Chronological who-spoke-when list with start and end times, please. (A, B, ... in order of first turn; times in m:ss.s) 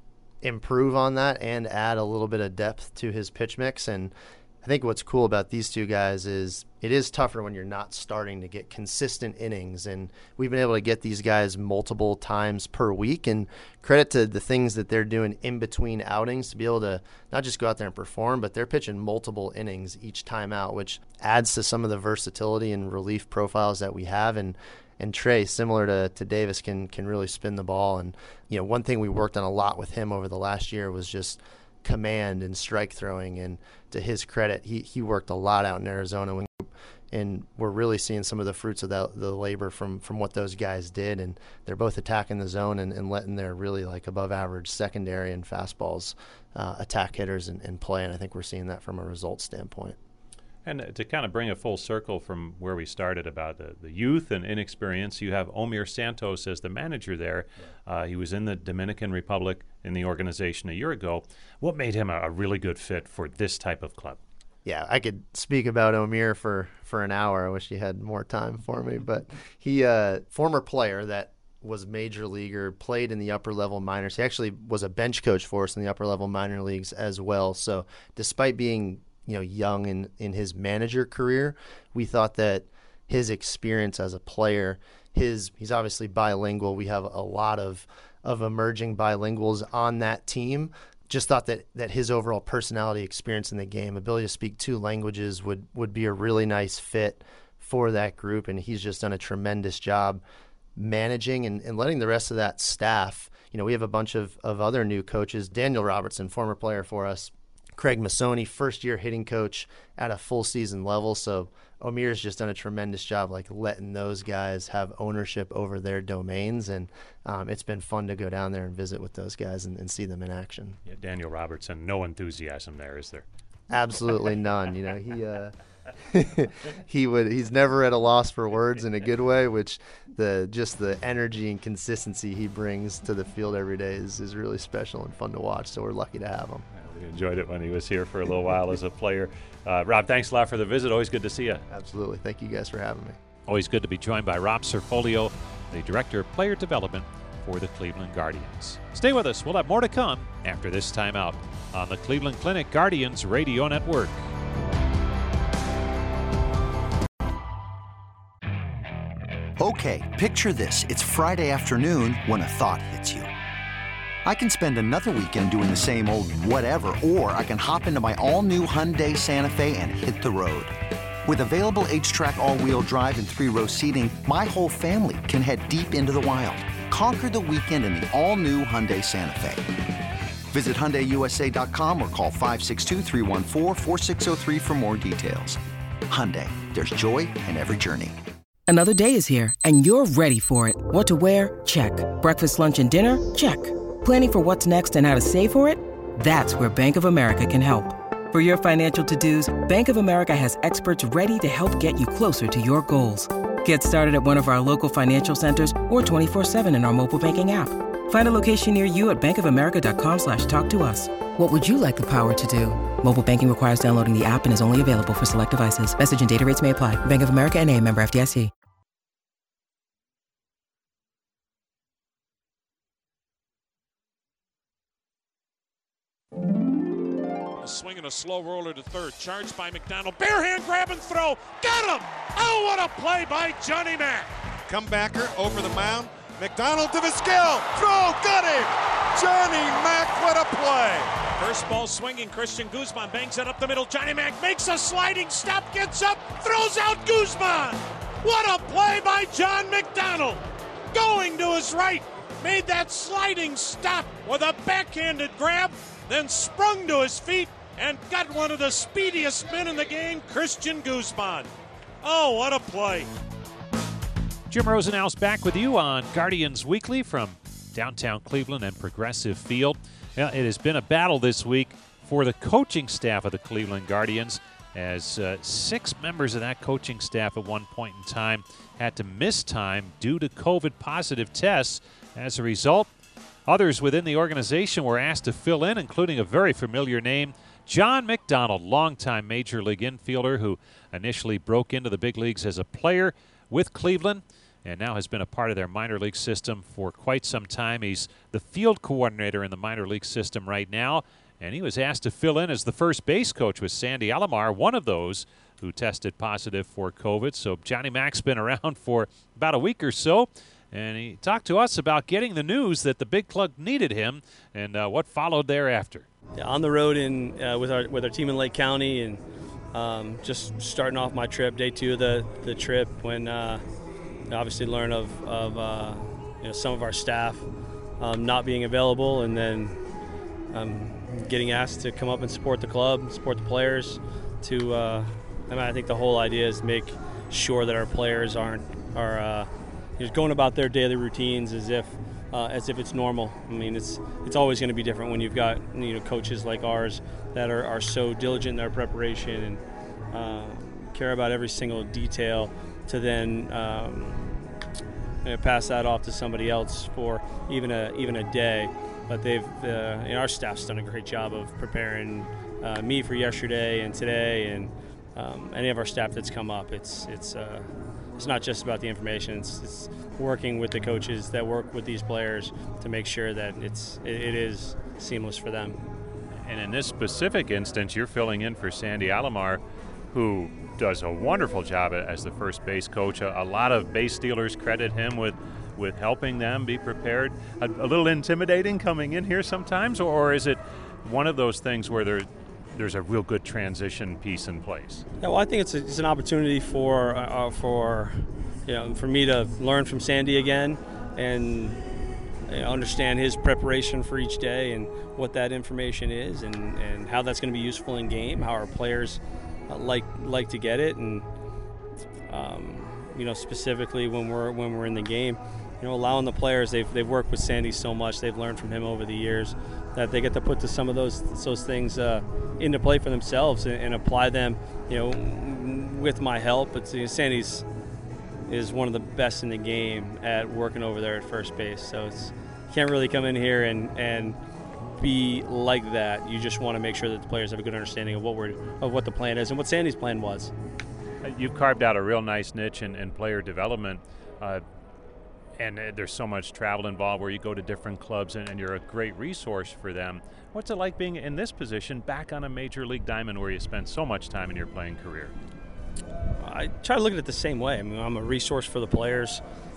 0:00.4-0:50.0 A
0:50.6-1:04.2 B
1:04.6-1:40.2 A
1:40.8-2:00.8 A
2:00.8-2:03.2 B
2:03.7-2:05.5 A
2:06.1-2:16.6 A
2:16.8-2:21.6 B
2:21.7-2:23.2 A
2:23.5-2:34.2 B
2:39.6-2:43.3 C
2:44.2-2:50.7 C
2:51.2-2:59.8 C
3:00.5-3:08.2 C
3:08.7-3:38.5 D
3:47.6-3:54.3 E
3:54.7-4:01.1 F
4:01.4-4:21.5 E
4:22.0-4:23.1 E
4:24.5-4:42.9 B
4:43.5-5:16.1 B
5:16.4-5:19.2 G
5:19.7-5:23.6 G
5:24.3-5:27.4 G
5:28.0-5:29.8 G
5:30.5-5:49.6 G
5:50.1-5:54.5 G
5:55.2-6:15.8 G
6:16.4-6:35.0 B
6:35.2-6:41.8 G
6:42.5-6:51.3 G
6:52.3-7:07.6 G
7:08.5-7:14.4 G
7:15.0-7:20.5 G
7:21.2-7:24.6 B
7:25.6-7:35.3 B
7:36.4-7:39.4 G